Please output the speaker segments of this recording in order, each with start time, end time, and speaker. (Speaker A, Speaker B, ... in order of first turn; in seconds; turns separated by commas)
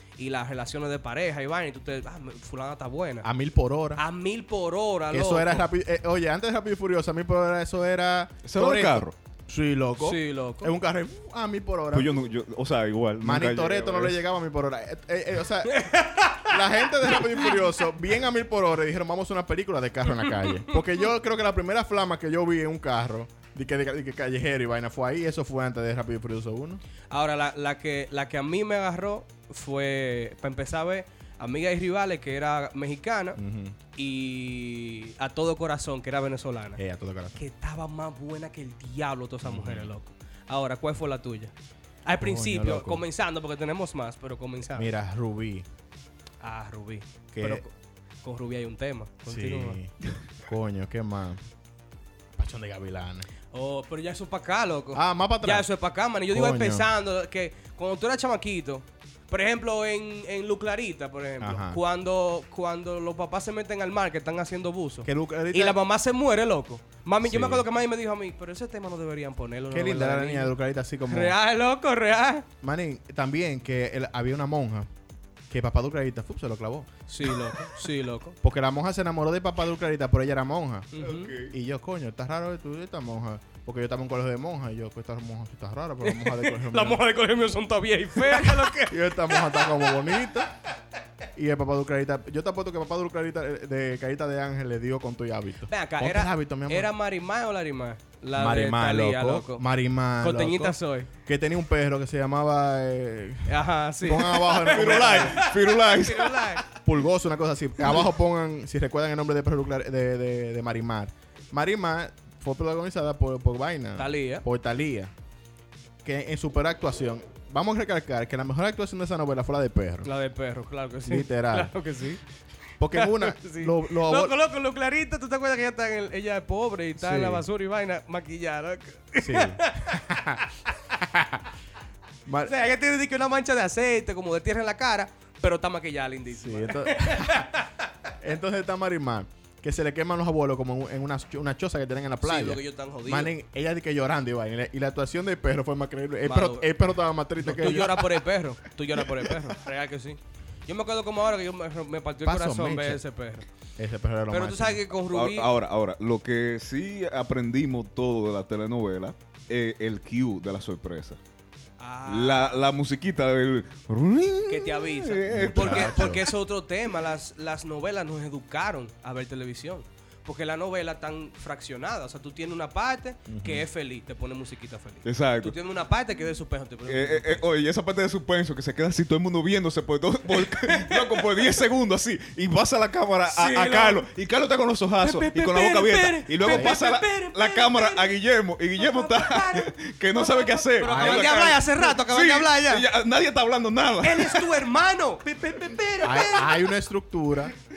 Speaker A: 0.2-3.3, Speaker B: 3.2-4.0, Speaker A: 4.0-5.7, Speaker B: 5.1-12.2, Speaker C: 8.4-9.1, Speaker A: 10.0-10.7, Speaker C: 11.9-14.2, Speaker B: 13.2-26.8, Speaker A: 15.7-17.6, Speaker A: 27.1-33.4, Speaker B: 33.4-33.8, Speaker A: 33.9-36.8, Speaker B: 36.8-37.4, Speaker A: 37.4-41.5, Speaker B: 39.4-39.9, Speaker A: 42.0-44.9, Speaker B: 42.2-43.0, Speaker B: 44.7-45.6, Speaker A: 46.4-47.7, Speaker B: 47.3-47.6, Speaker A: 48.2-49.8, Speaker B: 49.3-51.4, Speaker B: 52.4-53.3, Speaker A: 53.5-70.5, Speaker B: 54.9-55.7, Speaker B: 56.3-56.9, Speaker B: 61.4-61.8, Speaker B: 65.0-65.8, Speaker B: 67.2-67.6, Speaker B: 69.7-71.3, Speaker A: 71.1-72.5, Speaker B: 72.6-74.9, Speaker B: 75.5-77.3, Speaker A: 77.1-78.4, Speaker B: 78.4-80.9, Speaker A: 80.9-81.3, Speaker C: 81.0-81.5, Speaker B: 81.4-87.0, Speaker A: 86.0-90.1, Speaker B: 88.2-90.5, Speaker B: 91.3-96.9, Speaker A: 95.7-99.6, Speaker B: 98.3-105.5, Speaker A: 100.2-101.1, Speaker A: 103.5-106.7, Speaker C: 104.7-106.6, Speaker B: 106.7-115.1, Speaker A: 114.0-114.4, Speaker B: 116.0-120.1, Speaker A: 120.0-122.2, Speaker B: 121.0-121.7, Speaker B: 122.8-124.3, Speaker A: 122.9-130.8, Speaker B: 127.0-127.4, Speaker B: 129.2-130.4, Speaker B: 131.0-131.4, Speaker B: 132.2-132.5, Speaker A: 132.4-137.7, Speaker B: 136.3-137.5, Speaker B: 138.2-148.2, Speaker A: 142.2-143.3, Speaker A: 146.2-146.7, Speaker A: 147.4-153.4, Speaker B: 152.2-153.0, Speaker B: 153.8-154.8, Speaker A: 154.3-155.5, Speaker C: 155.1-161.2, Speaker A: 161.8-162.6, Speaker C: 162.1-166.2, Speaker A: 164.5-177.4, Speaker B: 165.3-166.2, Speaker B: 173.3-173.7, Speaker C: 175.0-175.5, Speaker C: 176.8-194.6, Speaker A: 180.3-181.2, Speaker A: 183.3-184.0, Speaker A: 185.0-188.2, Speaker B: 186.4-186.7, Speaker A: 188.8-192.8, Speaker B: 190.8-191.6, Speaker A: 194.0-196.6, Speaker B: 196.0-197.5